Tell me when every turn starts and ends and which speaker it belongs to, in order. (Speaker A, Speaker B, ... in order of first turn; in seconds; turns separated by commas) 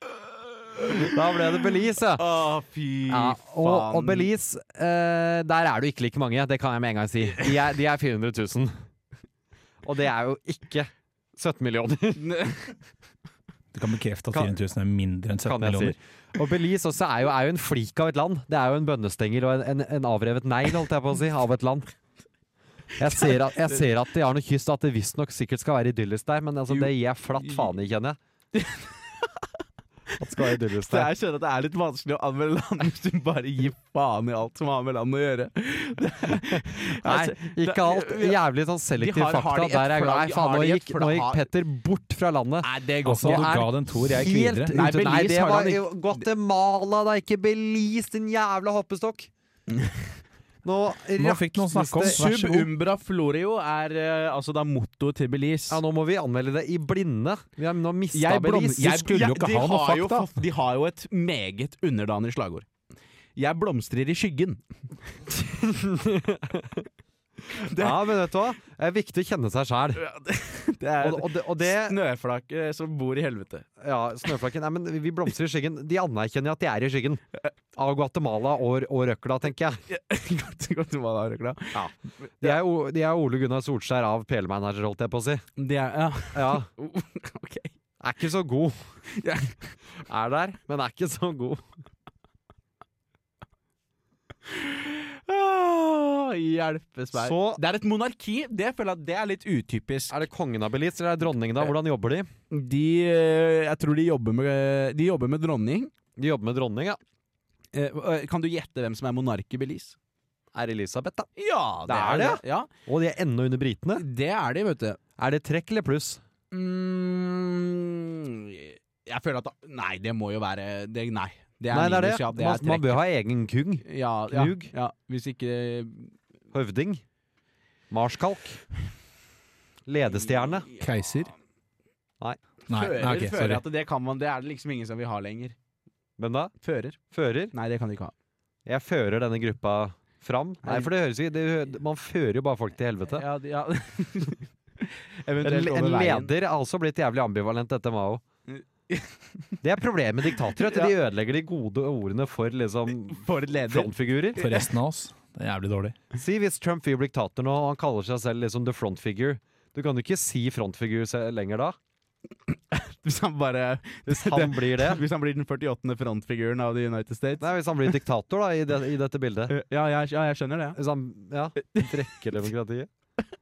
Speaker A: 0.9-2.2, Speaker B: 2.1-4.3, Speaker A: 3.1-8.8, Speaker A: 9.8-12.3, Speaker B: 12.2-12.8, Speaker C: 13.7-16.0, Speaker A: 14.3-14.6, Speaker A: 15.4-21.9, Speaker A: 23.0-28.2, Speaker B: 26.7-27.7, Speaker B: 28.5-29.5, Speaker A: 30.2-31.1, Speaker B: 30.5-38.4, Speaker A: 36.8-49.3, Speaker B: 39.0-41.5, Speaker B: 42.6-43.5, Speaker C: 43.0-44.8, Speaker B: 44.8-46.2, Speaker B: 49.7-50.2, Speaker A: 50.6-52.2, Speaker C: 51.2-52.7, Speaker B: 52.1-55.8, Speaker A: 55.7-59.0, Speaker B: 58.1-62.7, Speaker C: 58.8-60.3, Speaker B: 63.4-64.6, Speaker A: 65.3-66.9, Speaker B: 67.5-68.2, Speaker A: 67.8-70.0, Speaker B: 70.0-73.7, Speaker A: 71.0-72.0, Speaker A: 73.8-77.2, Speaker A: 77.7-79.8, Speaker B: 79.9-82.5, Speaker A: 81.7-85.5, Speaker B: 85.6-87.7, Speaker A: 86.3-86.7, Speaker A: 88.0-88.9, Speaker B: 89.1-89.8, Speaker A: 90.0-91.7, Speaker B: 94.5-100.2, Speaker A: 97.1-97.6, Speaker A: 100.1-102.3, Speaker B: 102.5-105.9, Speaker A: 106.2-107.0, Speaker B: 107.7-110.0, Speaker A: 110.5-111.3, Speaker B: 111.4-112.7, Speaker A: 111.9-114.0, Speaker B: 114.0-115.0, Speaker A: 115.2-116.2, Speaker B: 116.5-123.0, Speaker A: 121.7-124.7, Speaker B: 123.8-126.2, Speaker A: 126.5-127.0, Speaker A: 127.9-128.6, Speaker A: 129.9-130.7, Speaker C: 130.8-131.3, Speaker C: 132.7-133.6, Speaker B: 132.7-135.6, Speaker A: 136.2-136.5, Speaker B: 136.6-137.0, Speaker A: 137.1-137.5, Speaker B: 137.5-138.1, Speaker A: 138.7-143.3, Speaker B: 140.6-140.9, Speaker B: 143.1-146.3, Speaker A: 145.4-148.2, Speaker B: 148.5-149.4, Speaker A: 149.6-154.4, Speaker B: 150.5-150.9, Speaker B: 153.0-154.7, Speaker C: 154.4-156.0, Speaker A: 156.2-161.8, Speaker B: 162.5-167.5, Speaker A: 164.1-165.0, Speaker A: 167.4-169.5, Speaker B: 169.5-170.8, Speaker A: 170.8-172.9, Speaker B: 171.6-171.9